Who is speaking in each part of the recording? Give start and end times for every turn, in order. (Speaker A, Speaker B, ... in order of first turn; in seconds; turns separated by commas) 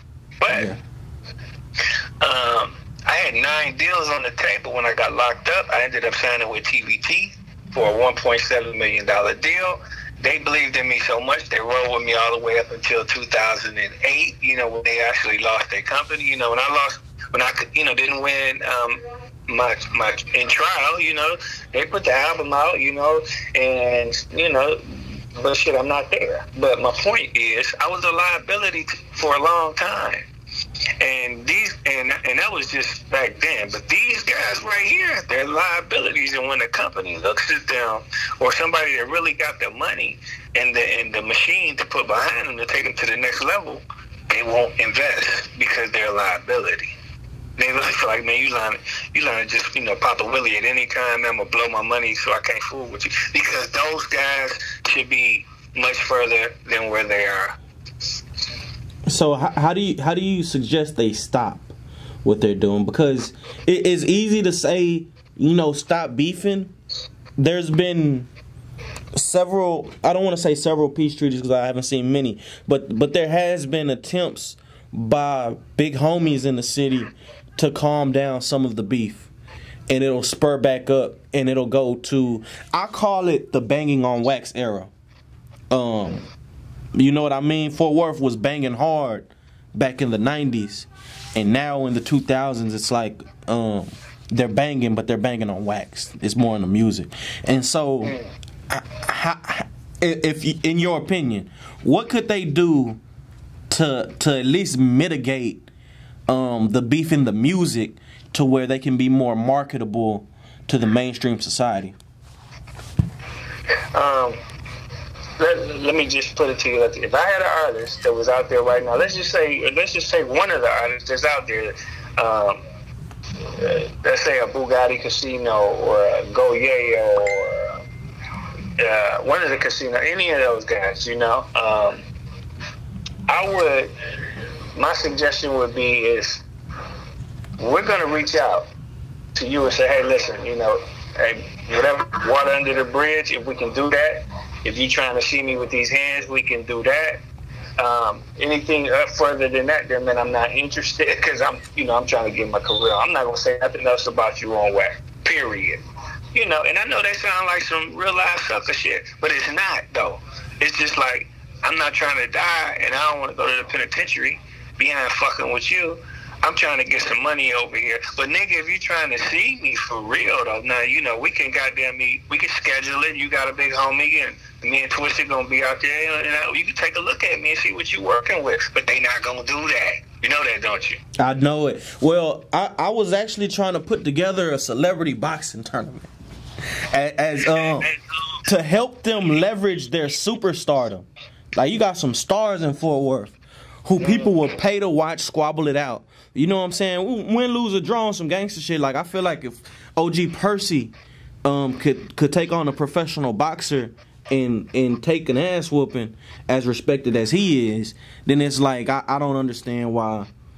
Speaker A: 0.4-0.7, Speaker B: 0.5-0.8, Speaker A: 2.2-24.8, Speaker A: 25.4-30.2, Speaker A: 31.0-46.9, Speaker A: 47.6-57.5, Speaker B: 59.1-66.7, Speaker B: 67.4-68.3, Speaker B: 69.2-79.3, Speaker B: 79.9-84.9, Speaker B: 85.7-86.3, Speaker B: 86.9-98.2, Speaker A: 98.0-98.3, Speaker B: 98.7-103.0, Speaker B: 103.7-105.7, Speaker B: 106.3-111.9, Speaker A: 113.9-114.4, Speaker A: 115.4-122.6, Speaker A: 123.6-127.8, Speaker A: 128.8-132.0, Speaker A: 133.3-133.9, Speaker A: 134.8-136.4, Speaker A: 137.6-138.7, Speaker A: 139.3-147.2, Speaker A: 147.8-155.8, Speaker A: 156.3-181.0, Speaker B: 181.2-186.1, Speaker B: 186.9-187.9, Speaker A: 187.5-187.9, Speaker B: 188.5-210.3, Speaker A: 194.0-194.3